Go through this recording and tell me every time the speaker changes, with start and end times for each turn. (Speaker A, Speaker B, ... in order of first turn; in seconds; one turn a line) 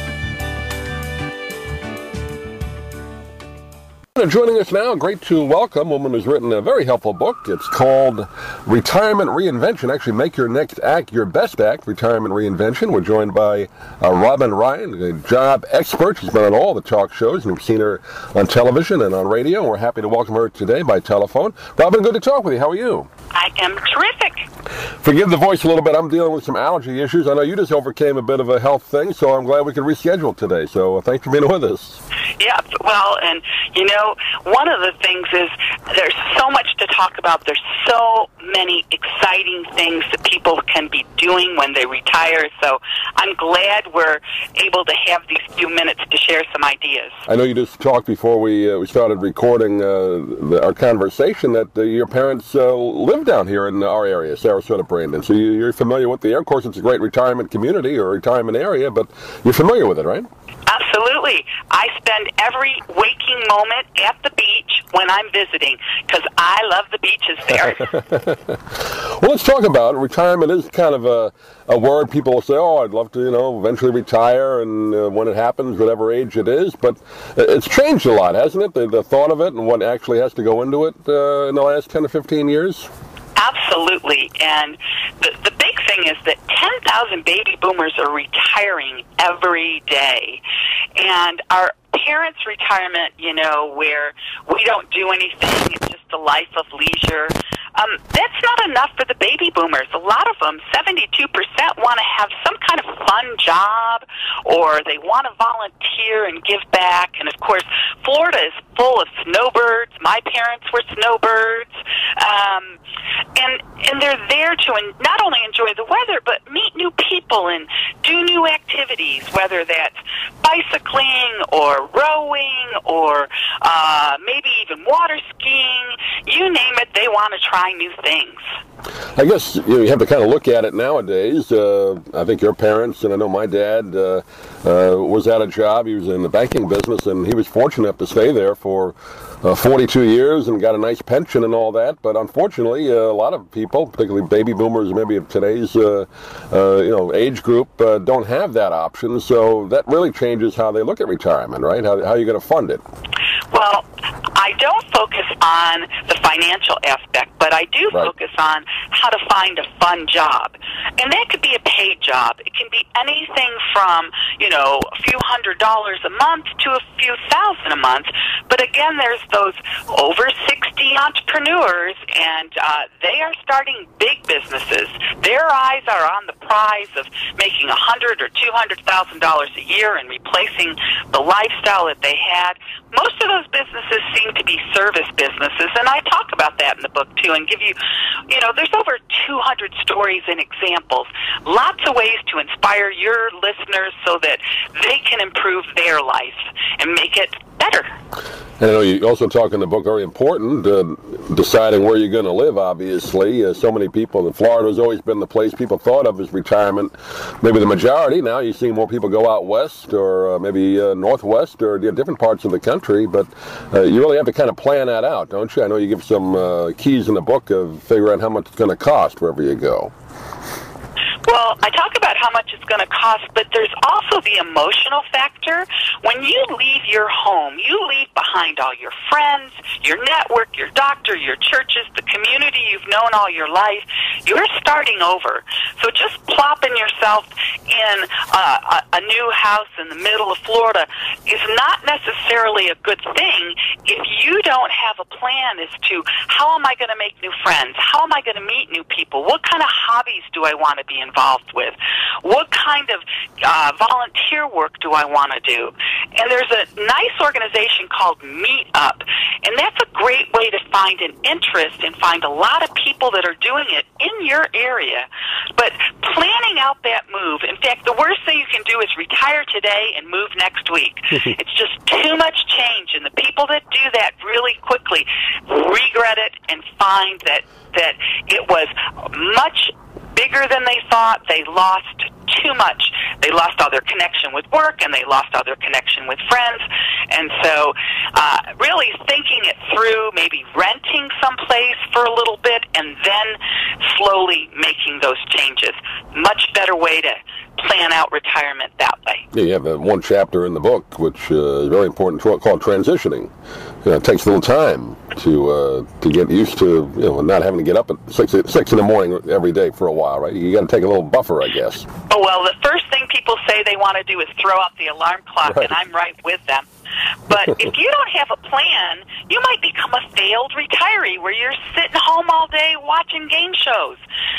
Speaker A: 4.2-23.1
Speaker B: 23.3-24.5
Speaker A: 25.0-32.0
Speaker B: 32.4-47.1
Speaker A: 47.3-60.3
Speaker B: 60.7-67.9
Speaker A: 67.8-82.9
Speaker B: 83.4-90.4
Speaker B: 91.0-112.8
Speaker B: 113.3-128.4
Speaker A: 129.2-152.8
Speaker B: 153.5-187.8
Speaker B: 188.3-197.9
Speaker A: 198.6-219.9
Speaker B: 221.2-299.2
Speaker A: 299.3-303.3
Speaker A: 303.8-311.9
Speaker B: 312.1-316.7
Speaker A: 315.5-315.7
Speaker B: 317.3-324.0